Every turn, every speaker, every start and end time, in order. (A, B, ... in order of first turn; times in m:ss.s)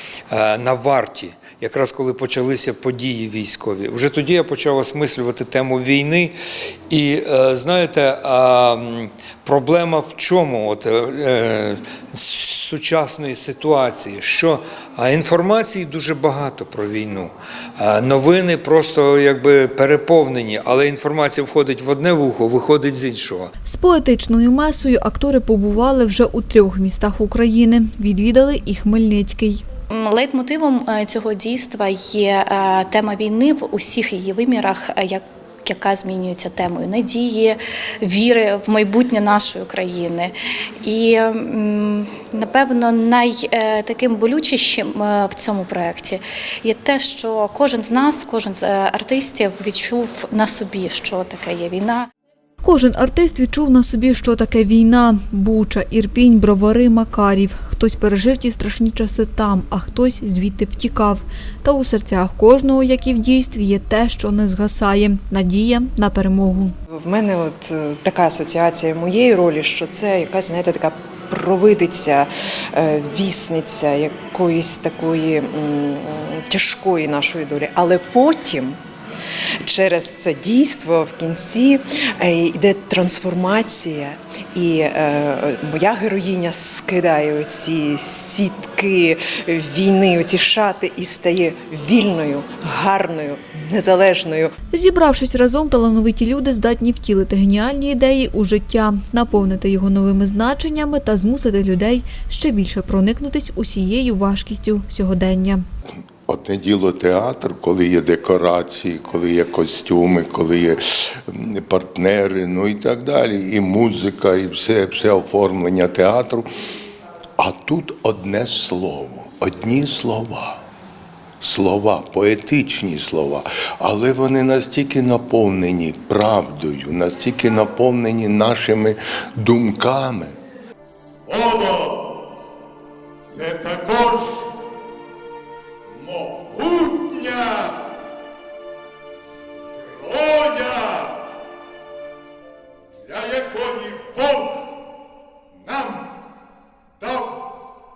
0:00.3-0:06.3 A
0:06.9-0:23.5 A
0:23.6-0:29.6 B
0:29.9-0:52.1 C
0:52.6-1:06.7 B
1:06.9-1:18.8 D
1:19.6-1:34.5 D
1:34.7-1:45.6 B
1:46.3-1:56.5 E
1:57.4-2:00.6 E
2:01.4-2:10.4 E
2:11.3-2:12.0 F
2:13.3-2:14.5 F
2:16.0-2:17.8 F
2:20.0-2:21.2 F
2:23.1-2:24.6 F
2:25.6-2:26.1 F
2:27.0-2:27.4 F